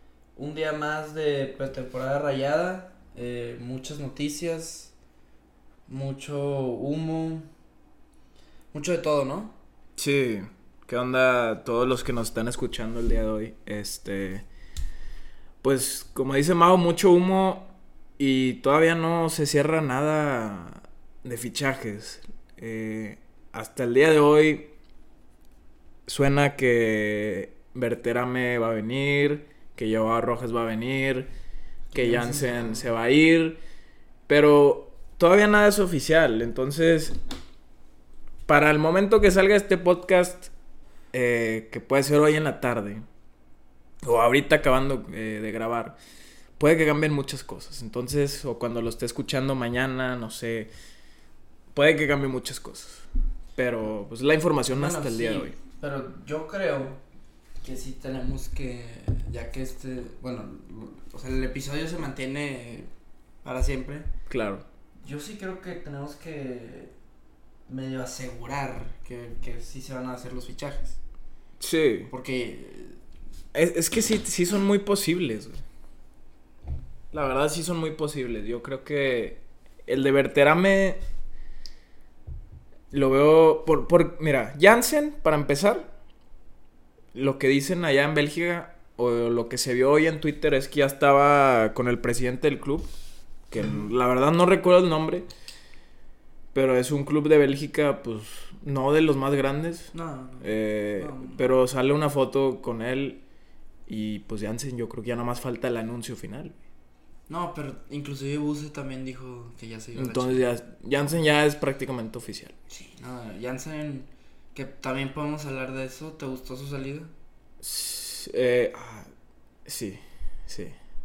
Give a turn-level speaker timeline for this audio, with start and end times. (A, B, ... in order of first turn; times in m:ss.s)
0:00.4-0:04.9 A
0:05.9-0:07.5 A
0:08.7-0:09.6 A
0:10.0-0:14.4 B
0:15.6-0:24.7 B
0:26.0-0:31.3 B
0:31.9-0:32.9 A
0:31.9-0:33.6 B
0:34.3-0:37.2 B
0:38.5-0:40.5 B
0:41.1-0:43.0 B
0:44.0-0:46.0 B
0:46.6-0:50.7 B
0:51.7-0:55.5 B
0:54.7-0:57.0 A
0:57.6-1:02.9 A
1:03.4-1:04.1 A
1:04.3-1:04.6 B
1:05.0-1:06.9 A
1:07.7-1:11.0 A
1:11.6-1:12.1 B
1:12.1-1:13.0 A
1:13.5-1:15.6 B
1:17.1-1:21.0 B
1:22.9-1:25.9 B
1:27.1-1:32.9 B
1:33.5-1:35.3 B
1:33.6-1:33.8 A
1:36.5-1:43.2 B
1:39.9-1:41.4 A
1:43.9-1:46.5 B
1:47.3-1:50.5 A
1:49.9-1:52.5 B
1:52.7-1:57.1 A
1:57.6-1:59.1 B
1:59.6-2:00.8 B